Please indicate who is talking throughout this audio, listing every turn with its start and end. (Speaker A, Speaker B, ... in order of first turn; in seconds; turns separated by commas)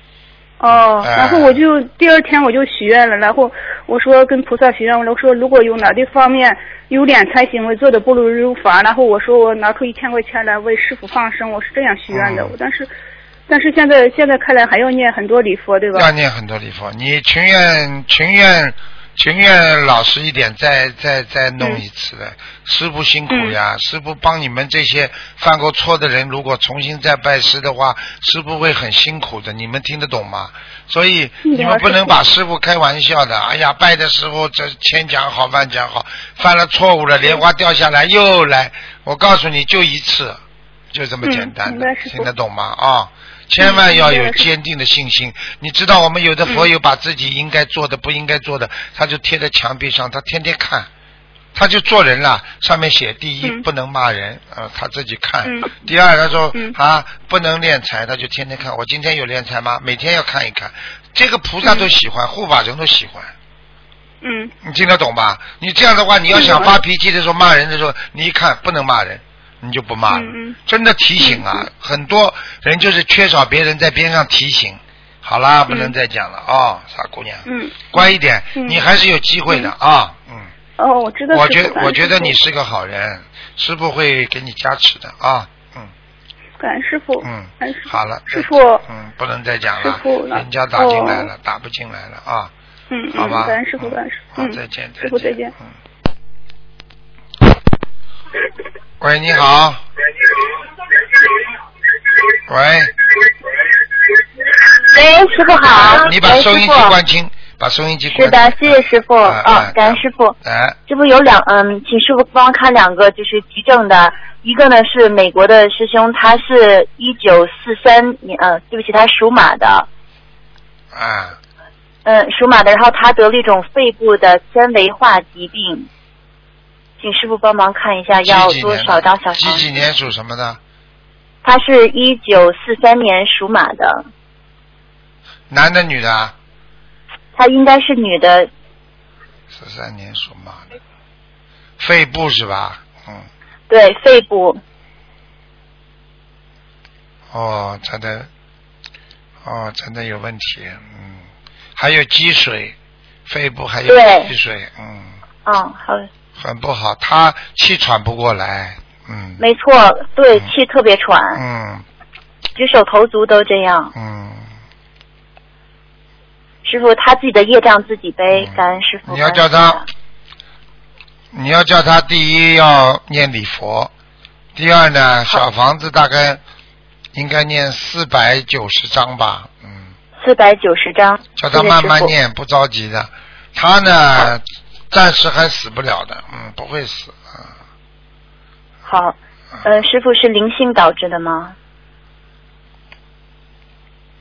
Speaker A: 0.6-12.9, Speaker B: 0.7-1.6, Speaker B: 12.1-12.5, Speaker A: 13.5-16.1, Speaker B: 15.9-40.4, Speaker A: 23.3-23.6, Speaker A: 31.4-32.2, Speaker B: 40.9-50.9, Speaker A: 41.2-42.3, Speaker A: 43.6-44.5, Speaker B: 51.5-63.3, Speaker A: 55.4-55.7, Speaker A: 61.6-61.9, Speaker A: 64.2-64.5, Speaker B: 64.6-80.5, Speaker A: 66.3-66.7, Speaker A: 70.1-70.6, Speaker A: 71.2-71.7, Speaker A: 75.7-75.9, Speaker A: 77.5-78.8, Speaker A: 80.8-82.3, Speaker B: 81.3-85.9, Speaker A: 86.6-88.8, Speaker B: 87.2-92.5, Speaker A: 89.8-91.3, Speaker A: 92.9-95.5, Speaker B: 93.1-95.4, Speaker B: 99.0-99.8, Speaker B: 102.5-102.9, Speaker C: 104.9-107.0, Speaker B: 105.7-110.8, Speaker C: 108.1-110.4, Speaker C: 110.9-119.9, Speaker B: 120.9-121.4, Speaker C: 122.0-125.9, Speaker C: 127.0-129.7, Speaker B: 128.1-130.6, Speaker C: 131.4-134.1, Speaker B: 135.5-136.3, Speaker C: 137.4-138.5, Speaker B: 139.5-140.7, Speaker B: 141.8-143.2, Speaker C: 143.7-144.6, Speaker B: 147.3-148.3, Speaker B: 149.4-151.2, Speaker B: 151.8-152.7, Speaker B: 153.2-155.2, Speaker C: 153.9-154.3, Speaker C: 155.4-156.1, Speaker B: 156.4-159.4, Speaker C: 159.4-161.4, Speaker B: 161.3-161.8, Speaker C: 162.6-163.9, Speaker B: 163.9-164.5, Speaker C: 166.6-169.9, Speaker B: 168.3-169.8, Speaker B: 171.3-173.9, Speaker B: 174.6-176.4, Speaker B: 177.1-179.9, Speaker C: 180.2-182.1, Speaker B: 181.4-187.5, Speaker C: 188.9-191.6